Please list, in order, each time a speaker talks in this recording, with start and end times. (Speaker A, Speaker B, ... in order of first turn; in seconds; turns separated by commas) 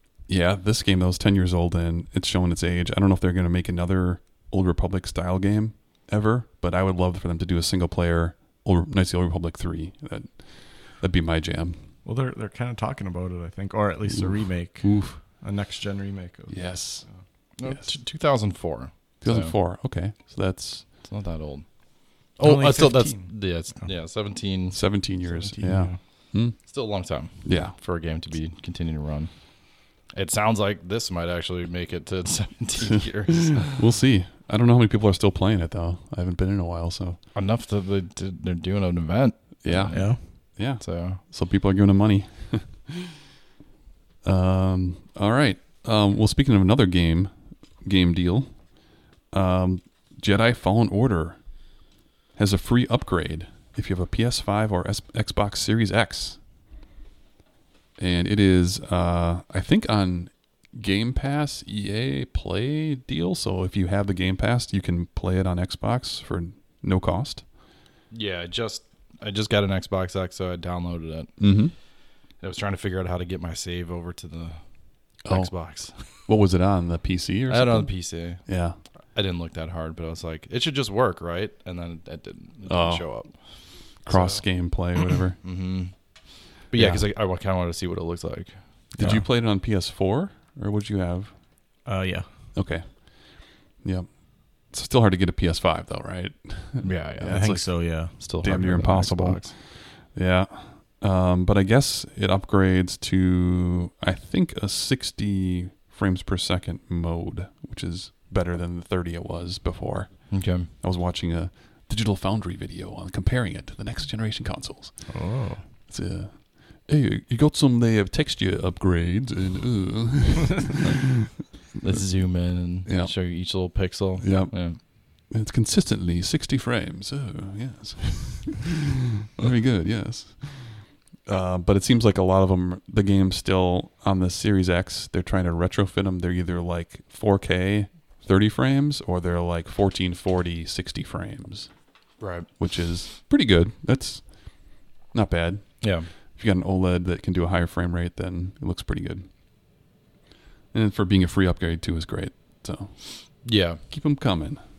Speaker A: 0.2-11.8, Speaker B: 12.0-17.2, Speaker A: 14.8-15.2, Speaker A: 16.5-17.1, Speaker C: 17.6-19.5, Speaker A: 17.6-17.9, Speaker A: 19.2-20.9, Speaker C: 21.0-24.8, Speaker B: 22.4-23.9, Speaker A: 24.7-26.7, Speaker B: 25.2-26.0, Speaker C: 26.6-29.3, Speaker A: 27.4-27.7, Speaker C: 30.1-33.8, Speaker A: 33.3-37.2, Speaker C: 37.3-41.2, Speaker A: 39.6-43.1, Speaker B: 39.9-40.2, Speaker A: 44.2-48.8, Speaker A: 49.3-51.4, Speaker A: 52.4-56.4, Speaker A: 58.0-67.4, Speaker C: 68.1-71.5, Speaker A: 71.4-71.7, Speaker C: 72.4-74.6, Speaker C: 75.2-76.1, Speaker A: 75.2-78.8, Speaker C: 77.5-78.5, Speaker C: 79.1-84.7, Speaker A: 82.7-85.4, Speaker C: 85.4-89.1, Speaker A: 86.7-87.0, Speaker A: 89.0-91.3, Speaker B: 89.0-89.2, Speaker B: 91.8-92.2, Speaker A: 92.5-115.1, Speaker C: 96.8-97.5, Speaker B: 97.2-98.4, Speaker C: 98.2-99.5, Speaker C: 110.3-110.7, Speaker B: 115.1-115.6, Speaker A: 115.9-120.9, Speaker C: 121.8-124.8, Speaker A: 122.8-123.3, Speaker A: 124.2-141.7, Speaker C: 142.2-142.5, Speaker A: 142.6-149.3, Speaker C: 145.8-146.1, Speaker A: 150.7-154.6, Speaker C: 153.4-153.8